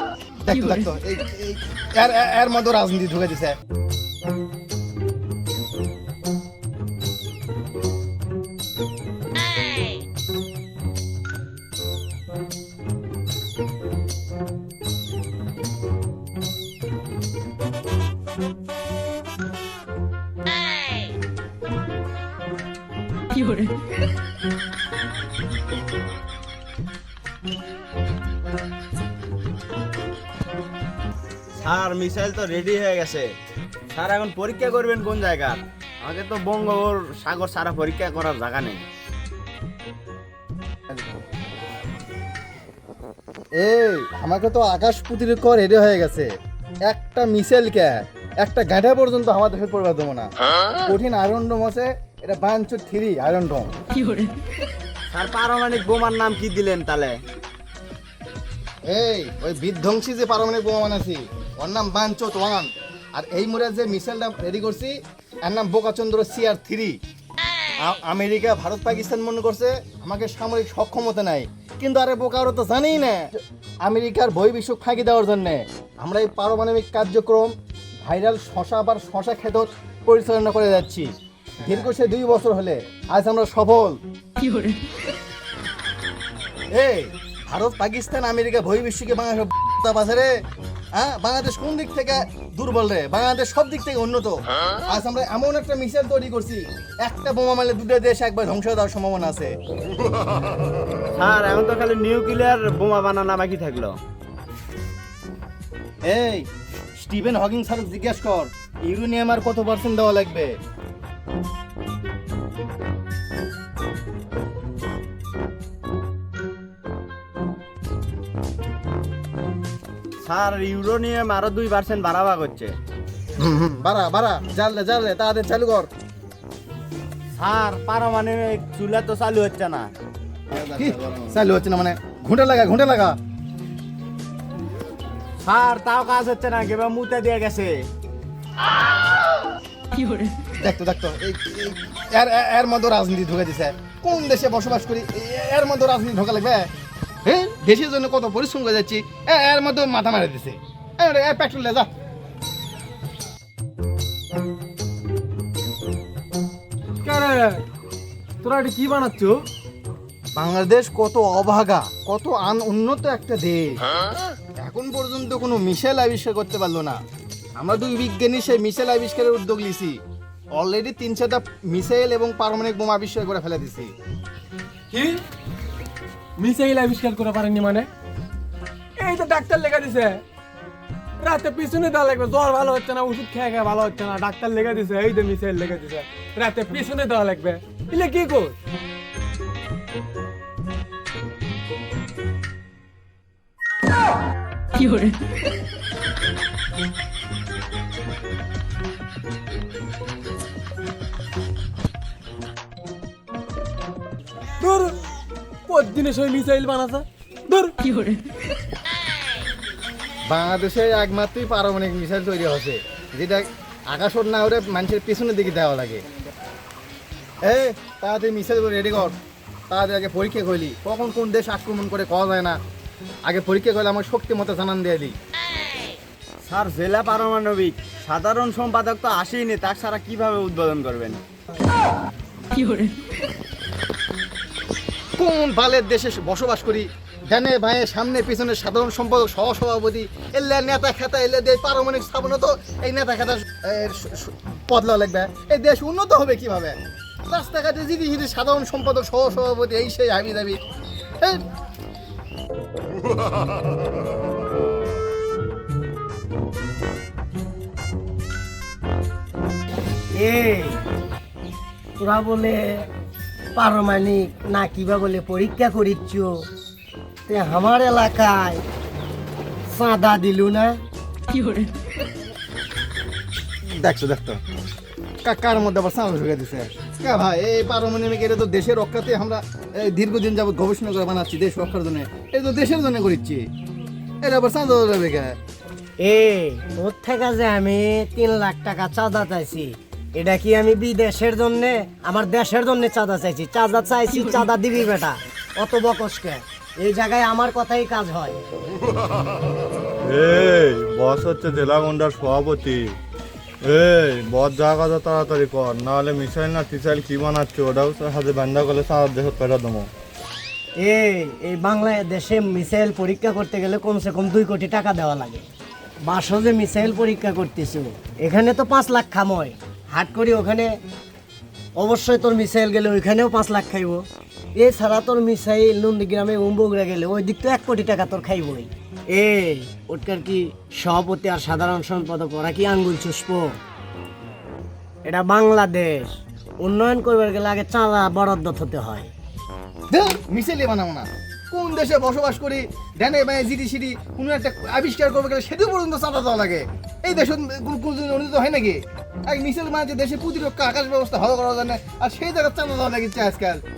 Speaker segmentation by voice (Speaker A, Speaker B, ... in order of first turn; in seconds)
Speaker A: 0.4-3.6, 43.6-46.3, 46.9-50.3, 50.8-53.7, 58.9-64.9, 65.5-67.0, 67.8-81.1, 81.6-84.0, 86.7-90.3, 91.0-94.4, 94.9-99.5, 106.1-106.5, 107.0-110.5, 123.4-125.9, 130.5-133.2, 140.6-146.7, 147.2-151.9, 160.4-163.8, 164.6-167.0, 167.6-170.0, 170.5-173.9, 210.3-216.0, 217.4-219.2, 219.7-222.6, 223.3-225.2, 235.2-246.8, 247.3-250.6, 273.7-274.4, 275.2-283.4, 284.2-285.4, 339.9-353.6
Speaker B: 31.6-33.3, 33.9-38.8, 55.1-57.2, 101.2-104.0, 120.2-122.8, 127.4-129.9, 135.4-137.8, 226.4-231.2
Speaker C: 157.0-157.6, 158.4-159.5, 174.9-175.2, 176.4-177.9, 179.0-180.2, 181.2-188.6, 204.6-205.0, 205.7-207.9
Speaker D: 260.1-260.8, 262.0-262.9, 263.6-266.3, 267.3-268.6, 269.7-270.8, 286.0-298.4, 310.8-315.4, 316.1-320.7, 321.8-324.0, 324.6-333.6, 335.1-339.1
Speaker E: 300.1-303.0, 303.6-309.9